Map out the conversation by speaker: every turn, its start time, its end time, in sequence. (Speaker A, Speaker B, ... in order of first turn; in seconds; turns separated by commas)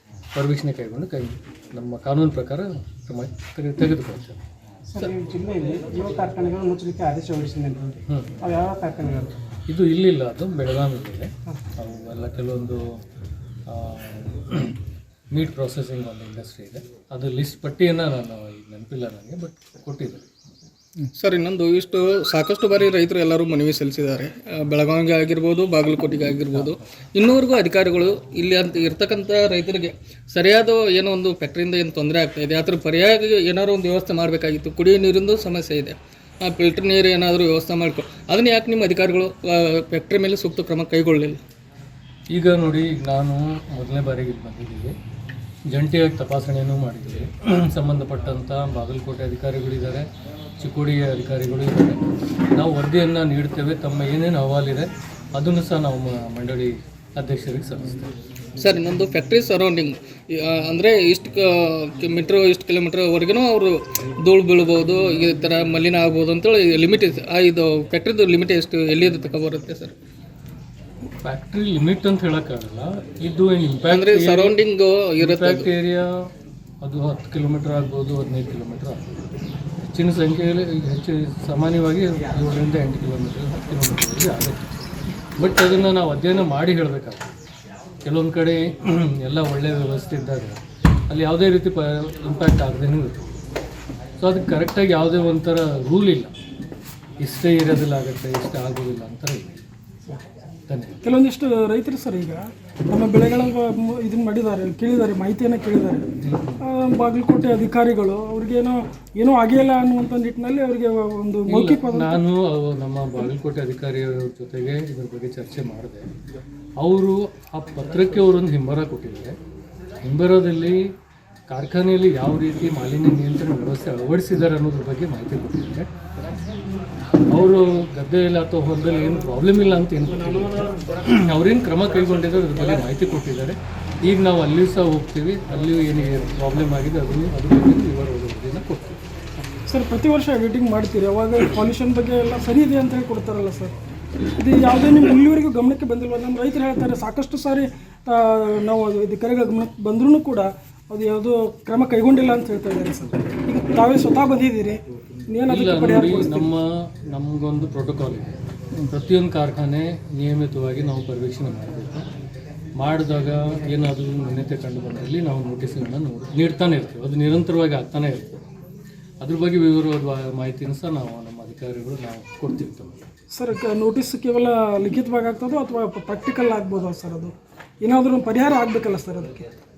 Speaker A: 0.3-4.4, Speaker B: 4.9-9.3, Speaker A: 8.1-8.3, Speaker A: 9.7-12.8, Speaker A: 13.7-14.8, Speaker A: 15.3-20.3, Speaker C: 21.1-39.3, Speaker A: 26.5-26.8, Speaker C: 39.9-41.4, Speaker A: 42.3-44.9, Speaker A: 45.7-50.0, Speaker A: 50.6-58.1, Speaker C: 58.6-69.9, Speaker A: 71.2-74.6, Speaker C: 73.8-75.7, Speaker A: 75.2-76.0, Speaker A: 76.8-79.2, Speaker A: 79.9-84.8, Speaker A: 85.4-87.3, Speaker A: 88.0-90.5, Speaker A: 91.1-93.3, Speaker A: 94.2-96.3, Speaker A: 97.2-99.6, Speaker A: 100.7-101.0, Speaker D: 101.0-106.0, Speaker A: 106.2-106.6, Speaker D: 106.6-112.2, Speaker A: 111.5-116.0, Speaker A: 116.8-119.3, Speaker A: 120.0-120.8, Speaker A: 121.5-125.9, Speaker A: 127.3-139.0, Speaker D: 139.7-143.7, Speaker D: 144.4-156.5, Speaker A: 155.5-162.0, Speaker A: 162.8-168.4, Speaker A: 169.2-172.9, Speaker D: 173.3-179.5